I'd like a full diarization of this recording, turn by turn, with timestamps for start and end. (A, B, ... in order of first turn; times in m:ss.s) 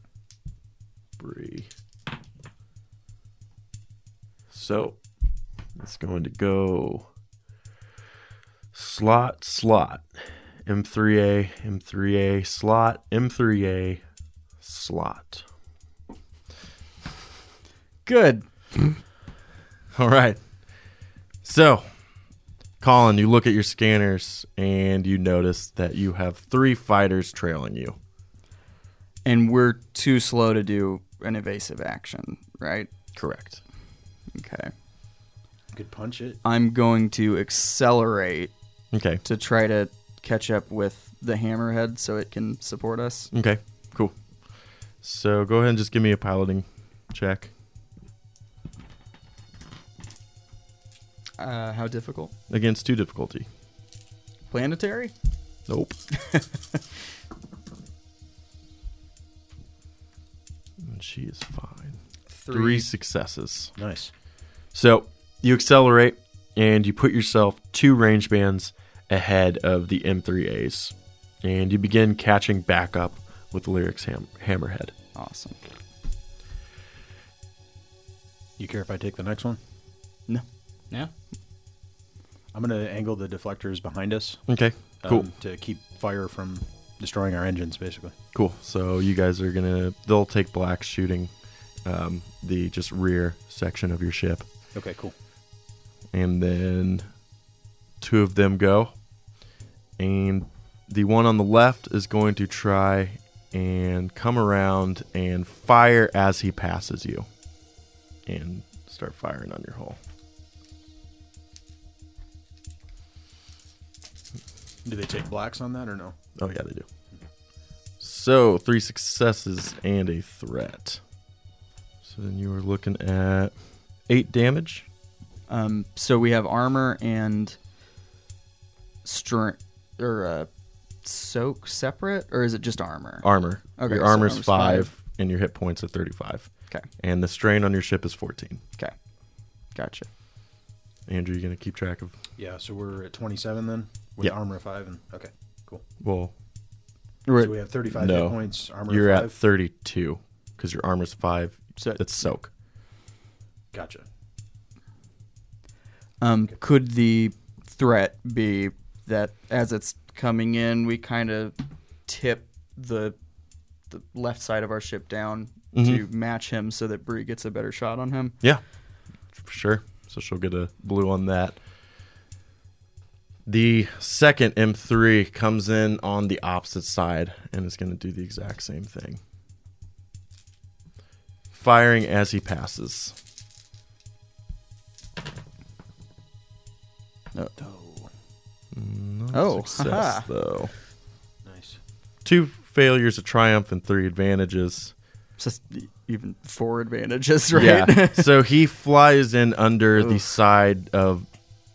0:01.2-0:01.7 A
0:04.5-0:05.0 A
0:05.8-0:07.1 A
0:08.7-0:10.0 A
0:10.6-0:14.0 A
0:14.6-0:15.4 A
0:18.0-0:19.0 B
0:19.9-0:20.4 A
0:21.4-0:21.8 A
0:22.8-0:28.0 A
0:29.2-0:32.9 B
0:33.2-0:33.6 A
0:34.3-0:34.7 B
0:35.7-0:36.4 C
0:36.4-0:38.5 B
0:38.9-0:39.2 A
0:39.2-0:43.3 B
0:43.3-0:44.2 A
0:45.0-0:47.5 A
0:51.4-0:52.3 B
0:52.5-0:53.5 A
0:54.5-0:55.1 B
0:55.7-0:56.0 A
0:56.2-0:56.5 B
1:00.8-1:03.7 A
1:02.3-1:02.9 B
1:03.8-1:04.1 C
1:04.7-1:14.9 A
1:15.1-1:15.6 B
1:18.6-1:19.6 C
1:22.5-1:24.4 C
1:24.5-1:25.3 A
1:25.0-1:28.1 C
1:28.3-1:31.3 A
1:31.8-1:34.5 A
1:34.7-1:35.1 C
1:36.1-1:37.1 A
1:38.0-1:38.9 A
1:40.0-1:47.3 A
1:48.2-1:50.0 A
1:54.8-1:56.2 C
1:56.4-1:56.8 A
1:58.0-2:01.0 A
2:02.0-2:04.9 A
2:05.5-2:07.6 B
2:09.0-2:10.5 B
2:11.0-2:14.9 B
2:13.2-2:18.6 A
2:19.7-2:20.1 B
2:21.1-2:22.1 A
2:22.4-2:25.8 C
2:26.0-2:26.3 A
2:27.2-2:27.5 B
2:27.4-2:29.3 C
2:27.9-2:32.5 A
2:31.8-2:32.0 B
2:33.7-2:34.0 C
2:36.2-2:43.2 B
2:43.9-2:48.4 B
2:45.7-2:46.0 A
2:49.3-2:51.6 A
2:53.4-2:59.2 A
3:01.5-3:03.2 A
3:07.6-3:08.1 C
3:08.7-3:10.7 A
3:09.3-3:10.2 B
3:11.4-3:11.8 C
3:12.2-3:14.9 A
3:15.4-3:18.3 B
3:17.5-3:21.2 A